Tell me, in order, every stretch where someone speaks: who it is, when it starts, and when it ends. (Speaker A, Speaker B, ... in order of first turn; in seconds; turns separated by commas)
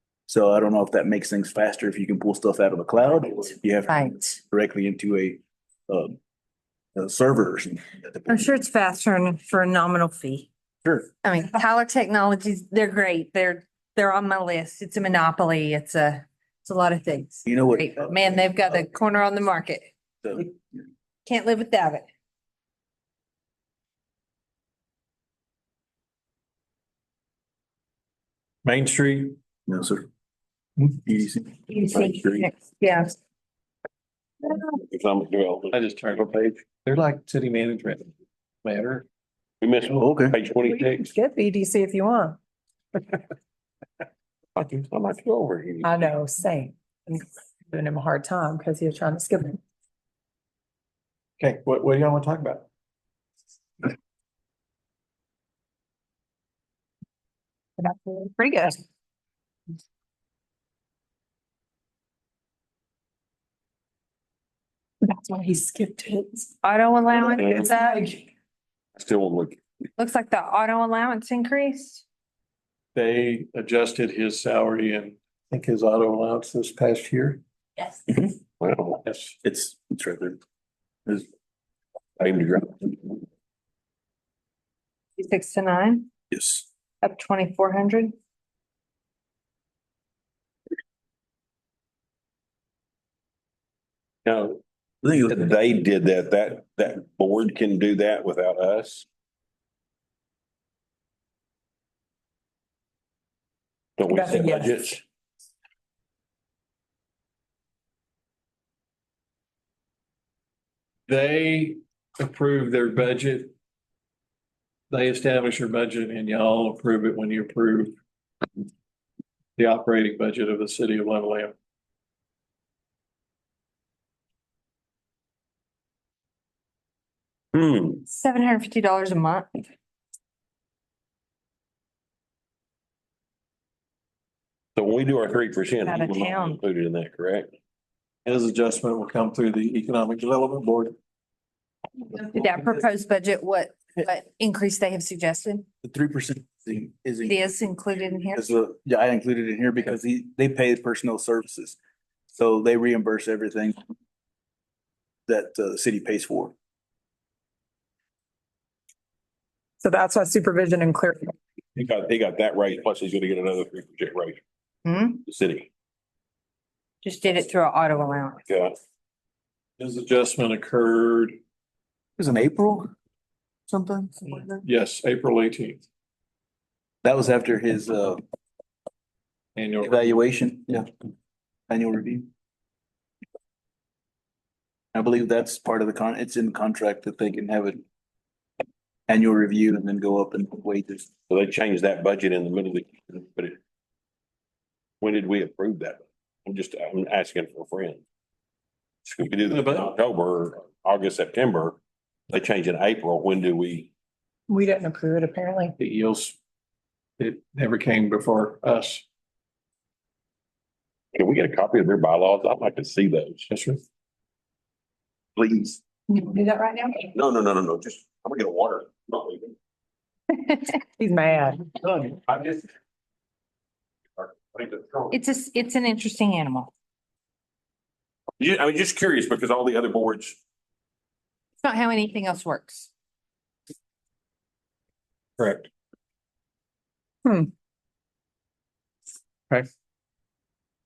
Speaker A: 0.3-6.2, Speaker B: 3.9-4.4, Speaker A: 7.0-8.4, Speaker B: 8.3-10.5, Speaker B: 11.2-19.9, Speaker A: 17.5-18.5, Speaker A: 20.2-20.8, Speaker B: 21.3-22.1, Speaker C: 28.6-29.4, Speaker A: 29.7-30.1, Speaker A: 30.9-31.5, Speaker B: 31.7-33.1, Speaker D: 31.9-32.5, Speaker D: 34.7-36.4, Speaker C: 35.7-38.1, Speaker C: 38.6-39.0, Speaker D: 39.6-41.1, Speaker A: 39.9-40.4, Speaker E: 40.7-42.4, Speaker D: 44.6-46.1, Speaker E: 45.8-49.6, Speaker C: 51.4-52.7, Speaker E: 57.8-58.8, Speaker E: 65.0-66.5, Speaker B: 66.6-68.1, Speaker D: 67.3-67.7, Speaker E: 67.6-68.2, Speaker D: 69.0-69.6, Speaker B: 70.0-72.0, Speaker C: 73.0-77.4, Speaker A: 78.1-78.3, Speaker D: 78.6-79.0, Speaker C: 79.0-79.3, Speaker A: 79.4-80.4, Speaker D: 82.2-83.2, Speaker B: 85.2-86.1, Speaker A: 86.3-86.7, Speaker B: 87.0-88.1, Speaker D: 94.2-94.6, Speaker A: 95.0-95.3, Speaker D: 95.2-99.1, Speaker D: 104.0-105.0, Speaker E: 104.1-104.7, Speaker C: 111.1-113.5, Speaker C: 114.9-118.0, Speaker C: 119.6-121.5, Speaker D: 127.5-128.0, Speaker B: 128.1-129.6, Speaker D: 134.8-137.5, Speaker B: 135.9-136.6, Speaker C: 138.3-140.9, Speaker B: 142.1-145.7, Speaker A: 145.8-147.4, Speaker B: 147.2-148.5, Speaker A: 148.3-151.8, Speaker A: 152.3-153.8, Speaker A: 155.3-156.6, Speaker E: 159.8-161.3, Speaker D: 161.8-164.4, Speaker B: 164.8-165.2, Speaker D: 165.2-165.7, Speaker B: 167.0-168.4, Speaker D: 168.5-168.8, Speaker C: 169.8-171.4, Speaker A: 172.2-172.9, Speaker A: 173.7-174.7, Speaker C: 174.6-175.8, Speaker A: 177.0-178.2, Speaker C: 179.6-180.1, Speaker A: 179.8-180.9, Speaker A: 181.7-182.3, Speaker A: 184.9-187.8, Speaker A: 189.1-191.1, Speaker D: 191.3-193.6, Speaker D: 195.0-198.0, Speaker D: 199.1-201.8, Speaker C: 199.2-199.9, Speaker D: 202.3-203.9, Speaker E: 204.5-205.8, Speaker C: 205.8-206.4, Speaker C: 207.2-209.0, Speaker D: 211.2-213.5, Speaker C: 213.5-213.8, Speaker D: 215.4-215.8, Speaker E: 216.2-217.1, Speaker D: 217.1-219.5, Speaker B: 220.3-220.8, Speaker E: 221.0-221.7, Speaker D: 222.1-222.7, Speaker D: 224.2-225.2, Speaker B: 225.1-226.7, Speaker D: 228.4-230.4, Speaker B: 231.6-232.9, Speaker E: 237.2-237.5